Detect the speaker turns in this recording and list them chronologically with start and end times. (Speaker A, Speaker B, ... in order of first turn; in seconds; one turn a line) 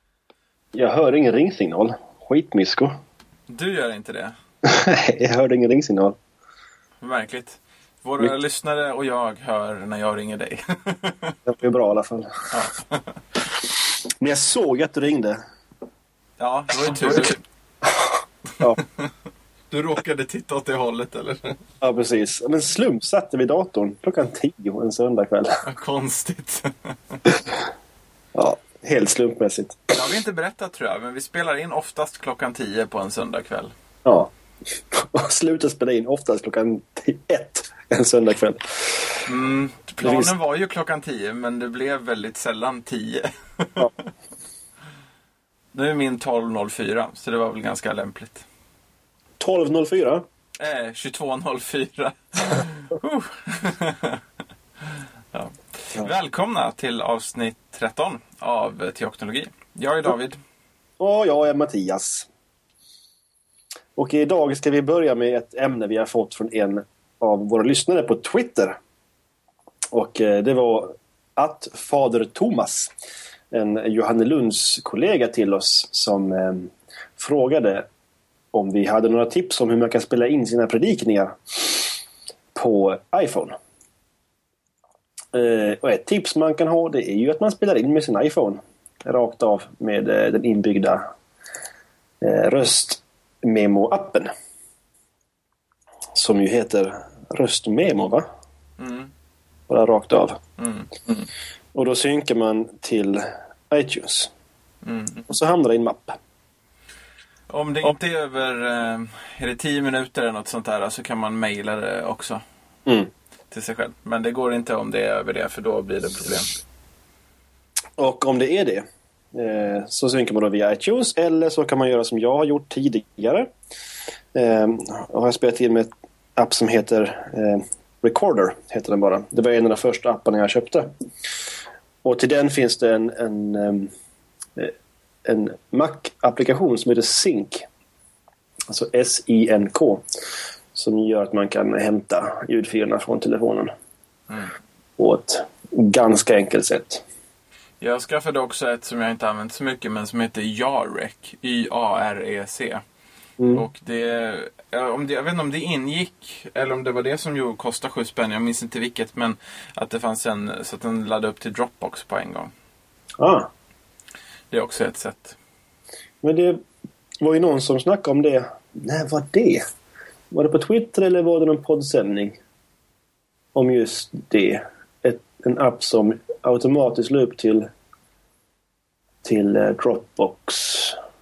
Speaker A: 0.7-3.0
Speaker B: 3.5-4.3
Speaker A: 4.6-6.2
Speaker B: 7.0-11.4
Speaker A: 11.5-12.5
Speaker B: 12.5-13.2
Speaker A: 14.2-15.4
Speaker B: 16.4-17.4
Speaker A: 16.9-17.3
Speaker A: 17.8-18.8
Speaker B: 19.7-21.6
Speaker A: 21.8-25.6
Speaker B: 25.6-27.4
Speaker A: 28.4-29.9
Speaker B: 29.9-33.7
Speaker A: 34.0-34.3
Speaker A: 34.9-39.2
Speaker B: 39.3-43.9
Speaker A: 40.0-40.3
Speaker B: 45.7-48.5
Speaker A: 49.4-50.2
Speaker B: 50.6-54.2
Speaker B: 54.8-60.4
Speaker A: 61.0-62.3
Speaker A: 64.0-68.8
Speaker A: 69.9-72.9
Speaker A: 73.5-77.9
Speaker A: 78.5-82.0
Speaker A: 82.5-83.5
Speaker A: 85.3-91.1
Speaker A: 92.2-94.3
Speaker A: 96.2-98.2
Speaker B: 98.8-99.1
Speaker A: 99.7-100.4
Speaker B: 100.6-101.3
Speaker A: 101.8-104.3
Speaker B: 104.8-105.3
Speaker A: 105.3-106.2
Speaker B: 107.5-112.4
Speaker A: 112.9-113.1
Speaker B: 113.5-116.5
Speaker A: 118.0-123.5
Speaker A: 124.3-130.9
Speaker A: 132.0-133.9
Speaker A: 135.2-137.7
Speaker A: 138.7-140.0
Speaker A: 140.7-143.7
Speaker A: 145.0-147.1
Speaker B: 147.8-152.8
Speaker A: 153.4-153.6
Speaker B: 153.5-162.5
Speaker A: 163.2-163.5
Speaker B: 164.5-165.4
Speaker A: 166.2-166.6
Speaker A: 167.2-169.6
Speaker A: 170.3-172.4
Speaker A: 173.6-177.7
Speaker A: 179.2-181.0